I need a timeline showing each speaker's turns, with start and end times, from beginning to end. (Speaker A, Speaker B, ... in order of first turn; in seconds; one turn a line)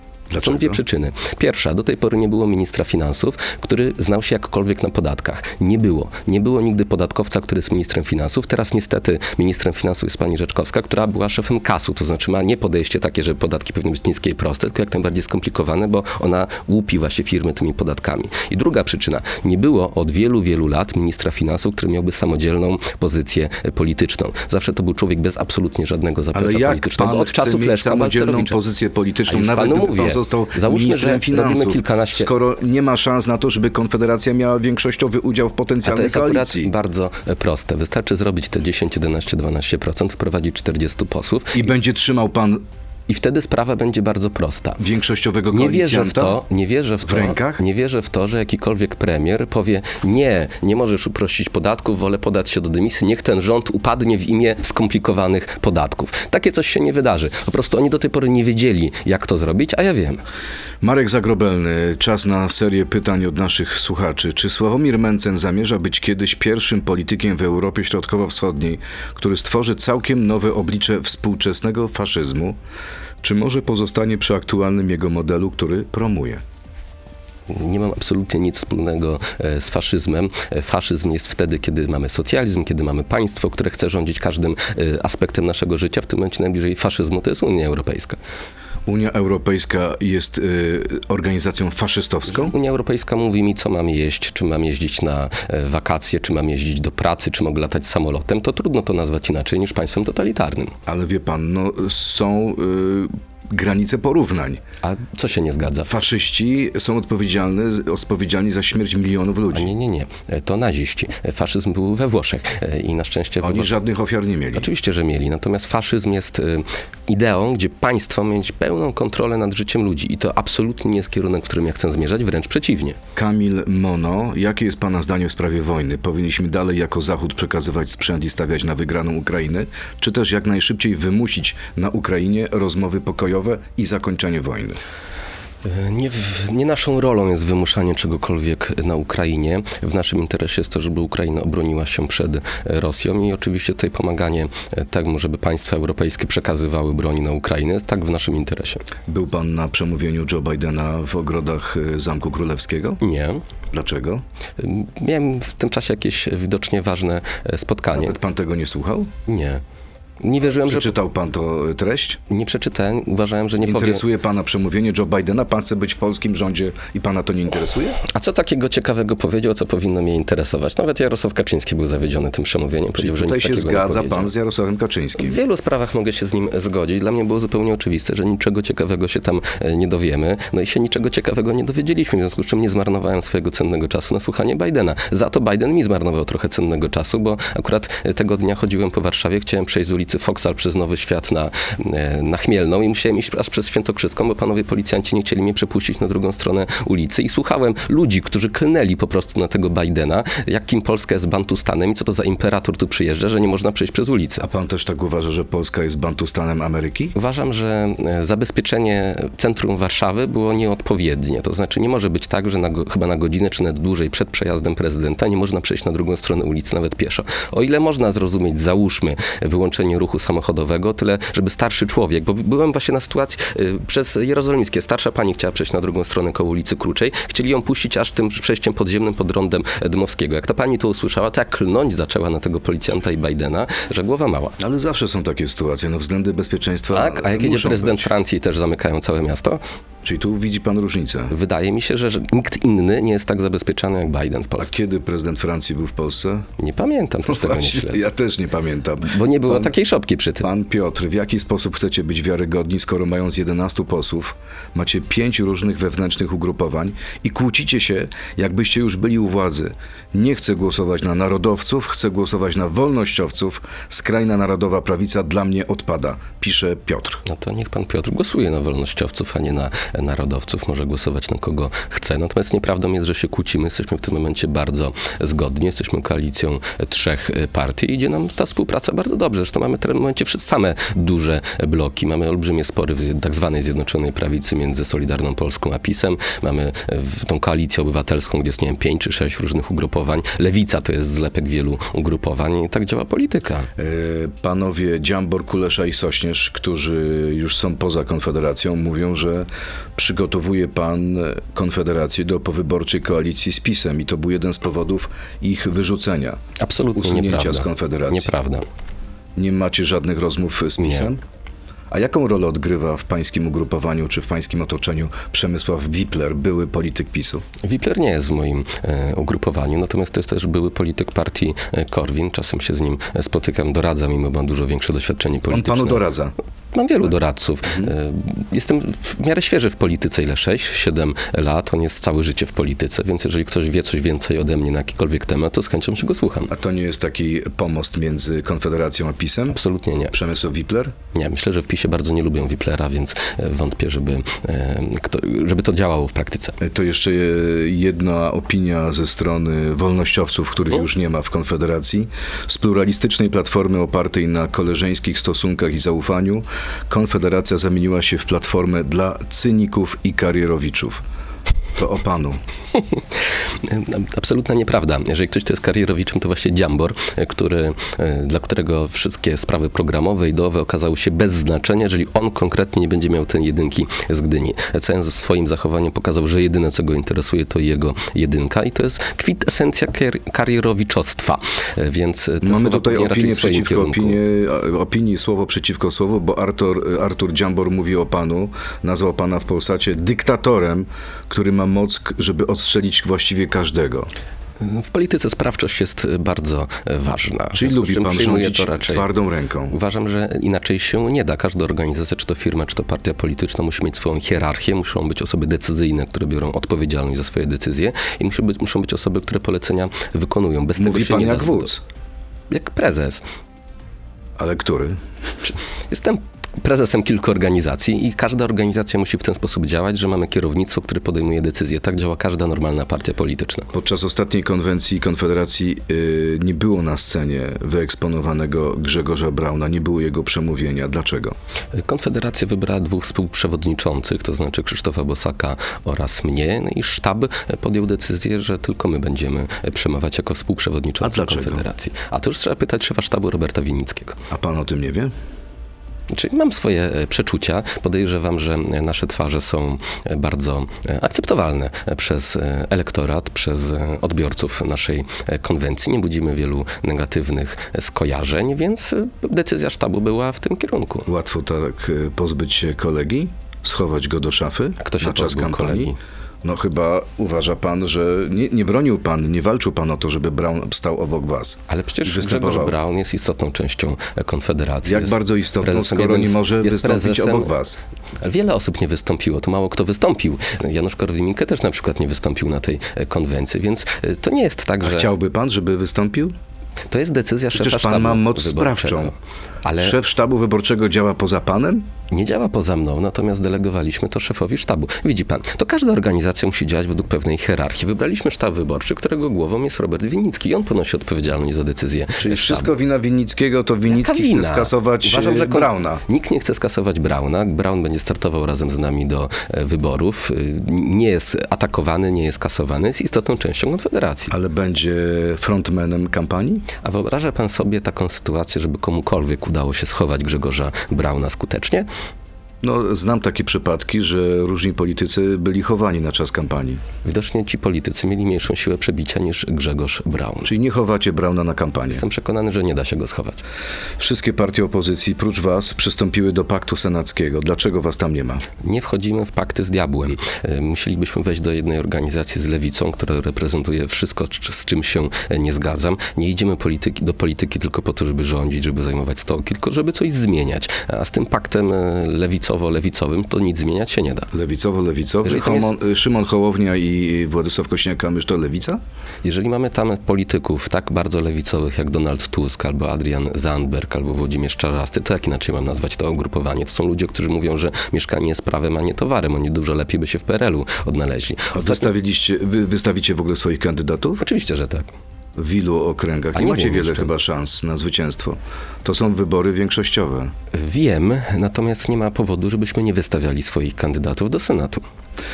Speaker A: 0.3-0.8
Speaker B: 0.4-28.6
Speaker A: 26.3-36.7
Speaker B: 29.3-32.3
Speaker B: 35.8-41.6
Speaker A: 41.5-42.6
Speaker B: 43.1-44.8
Speaker A: 44.8-46.4
Speaker B: 45.5-60.2
Speaker A: 47.0-47.6
Speaker A: 60.8-72.6
Speaker A: 73.2-76.4
Speaker B: 77.5-88.2
Speaker A: 88.9-92.5
Speaker B: 92.3-100.8
Speaker A: 100.9-104.6
Speaker B: 104.8-105.9
Speaker A: 105.9-109.7
Speaker B: 109.5-113.7
Speaker A: 113.4-114.7
Speaker B: 114.5-123.0
Speaker A: 123.2-134.8
Speaker B: 135.6-148.8
Speaker A: 149.1-153.0
Speaker B: 153.0-153.4
Speaker A: 153.7-154.2
Speaker B: 154.6-158.2
Speaker A: 157.9-159.1
Speaker B: 159.3-159.6
Speaker B: 160.2-160.9
Speaker A: 160.5-162.2
Speaker B: 162.3-164.0
Speaker A: 163.6-168.0
Speaker B: 168.0-174.3
Speaker A: 173.0-175.4
Speaker B: 175.2-204.5
Speaker A: 204.4-207.2
Speaker B: 207.2-234.6
Speaker A: 234.6-238.1
Speaker B: 236.9-239.6
Speaker A: 240.0-241.3
Speaker B: 241.3-244.7
Speaker A: 244.6-246.5
Speaker B: 246.6-248.1
Speaker A: 247.3-249.7
Speaker B: 249.0-250.5
Speaker A: 250.4-267.2
Speaker B: 267.2-293.7
Speaker A: 293.8-306.4
Speaker B: 306.6-308.6
Speaker A: 306.9-308.3
Speaker A: 309.4-311.2
Speaker B: 310.8-311.1
Speaker A: 311.9-317.4
Speaker B: 317.6-326.1
Speaker A: 325.5-326.3
Speaker B: 326.7-336.5
Speaker A: 327.7-327.9
Speaker A: 336.5-339.6
Speaker B: 339.5-340.1
Speaker A: 340.1-340.9
Speaker B: 341.1-346.6
Speaker A: 346.6-361.0
Speaker A: 361.8-362.4
Speaker B: 363.6-384.2
Speaker A: 382.4-394.1
Speaker B: 394.6-399.1
Speaker A: 397.5-399.8
Speaker B: 399.7-411.7
Speaker A: 410.8-411.8
Speaker B: 412.5-413.2
Speaker A: 414.4-415.0
Speaker B: 415.5-423.7
Speaker A: 423.7-431.4
Speaker B: 431.7-444.2
Speaker A: 441.0-441.6
Speaker A: 444.3-445.1
Speaker B: 446.1-461.1
Speaker A: 461.1-472.8
Speaker B: 464.8-466.0
Speaker B: 471.7-477.5
Speaker A: 474.9-477.8
Speaker B: 478.2-485.1
Speaker A: 484.8-486.3
Speaker B: 486.9-490.0
Speaker A: 487.6-489.1
Speaker A: 489.8-491.9
Speaker B: 492.1-502.7
Speaker A: 502.2-506.0
Speaker B: 503.9-514.3
Speaker A: 514.3-516.6
Speaker B: 516.8-521.9
Speaker A: 522.6-526.8
Speaker B: 527.0-530.5
Speaker A: 530.5-532.0
Speaker B: 531.9-533.4
Speaker A: 534.0-538.5
Speaker B: 538.6-554.3
Speaker A: 554.3-558.8
Speaker B: 555.2-555.8
Speaker B: 559.2-571.9
Speaker A: 571.5-574.2
Speaker B: 574.2-574.9
Speaker A: 575.4-580.3
Speaker B: 576.4-577.1
Speaker B: 580.5-584.8